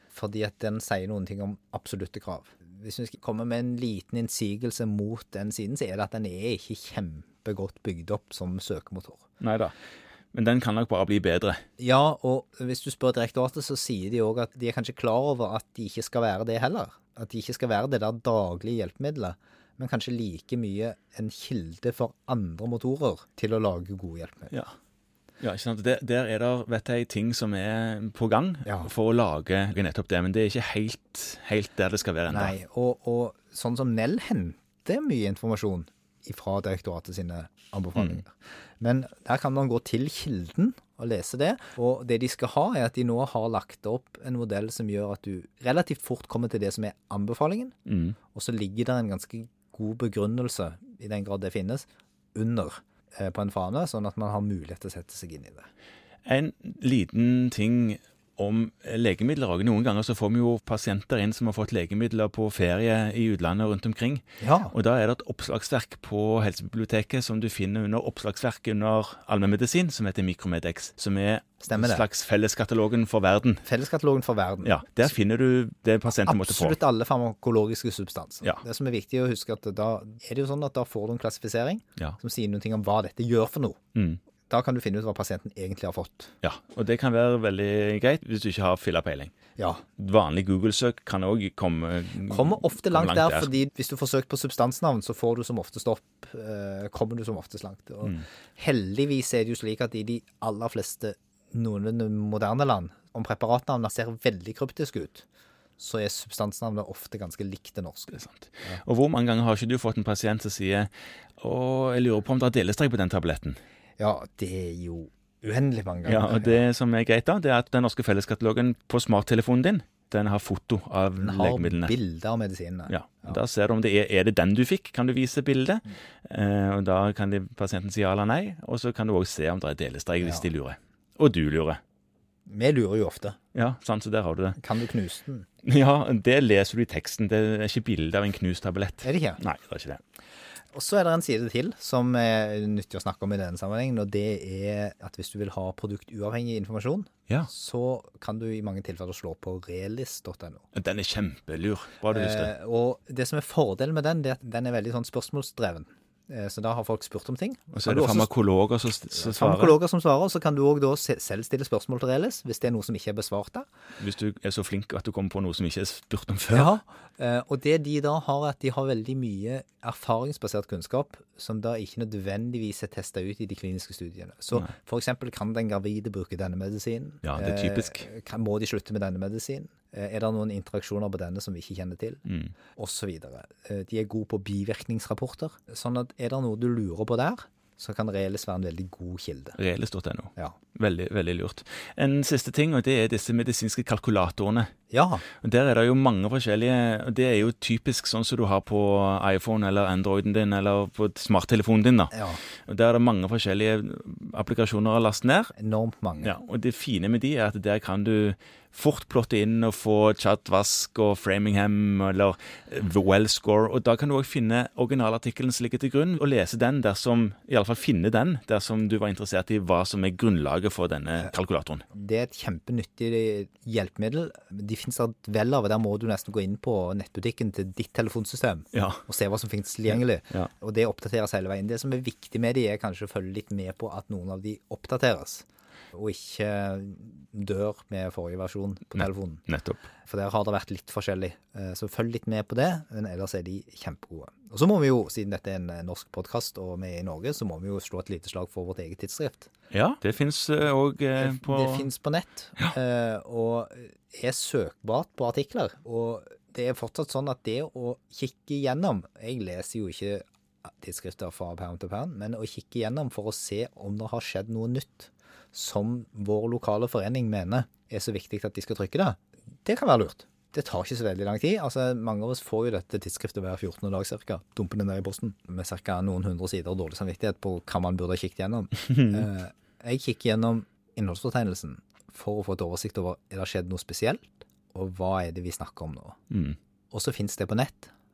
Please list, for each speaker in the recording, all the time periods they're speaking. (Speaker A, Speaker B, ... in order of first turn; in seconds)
Speaker A: 0.1-9.2, 11.8-24.5, 32.3-47.7, 48.3-55.7, 64.4-64.7, 71.6-72.0, 73.6-75.1, 76.2-83.8, 84.5-86.3, 89.6-89.8, 92.3-105.2, 105.8-108.8, 114.0-116.6, 121.2-123.4, 132.5-133.4, 134.6-135.4, 139.0-139.4, 140.7-150.7, 152.1-158.3, 159.1-163.7, 166.5-182.2, 182.8-189.6, 194.9-195.2, 202.1-202.4, 205.6-206.3, 221.9-239.4, 240.1-249.5, 251.2-286.2, 286.9-287.9
Speaker B: 9.4-9.7, 10.3-11.6, 25.4-32.6, 47.9-48.2, 56.2-73.6, 74.6-76.8, 83.9-84.2, 86.4-89.3, 90.0-93.5, 108.1-113.6, 116.0-121.9, 122.9-131.8, 133.5-134.6, 135.6-140.0, 150.7-152.5, 157.7-159.8, 164.0-166.7, 177.2-178.1, 182.3-182.5, 189.6-194.7, 195.3-205.5, 206.2-221.8, 228.7-229.0, 229.9-230.5, 239.0-239.8, 249.7-251.8, 278.9-279.2, 286.3-286.6